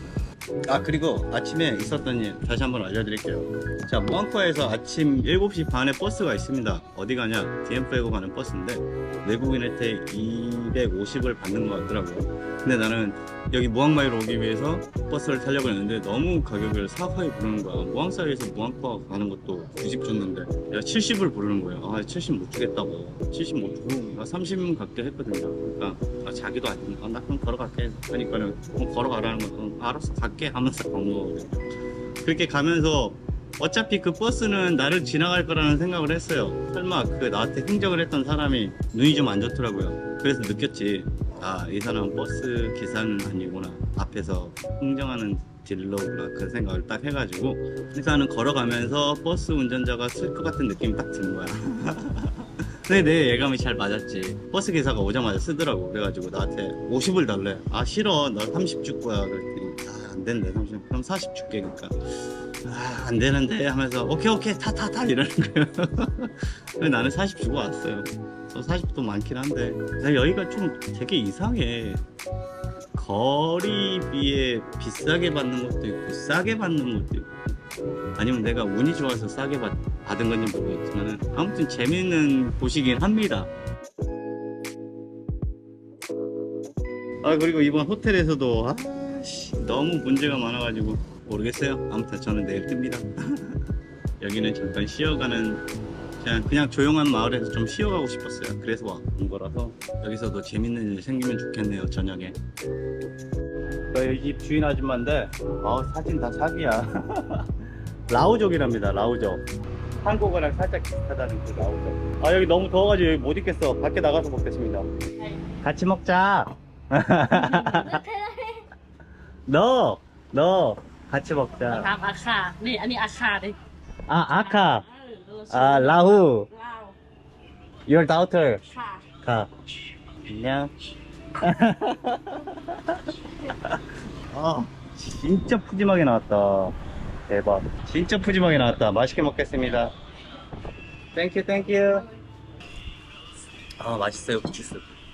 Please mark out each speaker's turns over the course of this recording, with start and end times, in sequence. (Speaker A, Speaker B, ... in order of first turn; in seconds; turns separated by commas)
Speaker A: 0.7-31.6, Speaker A: 32.2-72.0, Speaker A: 72.9-77.4, Speaker A: 78.2-83.5, Speaker A: 87.2-93.7, Speaker A: 94.2-95.6, Speaker A: 96.2-102.4, Speaker A: 103.9-109.4, Speaker A: 110.0-114.9, Speaker A: 115.5-118.1, Speaker B: 118.1-118.6, Speaker A: 119.5-122.0, Speaker B: 122.0-123.6, Speaker A: 124.1-126.5, Speaker B: 126.6-126.9, Speaker A: 127.9-128.6, Speaker A: 129.2-129.5, Speaker A: 130.2-130.7, Speaker A: 131.4-136.8, Speaker A: 137.3-139.9, Speaker A: 141.1-142.1, Speaker A: 143.8-144.9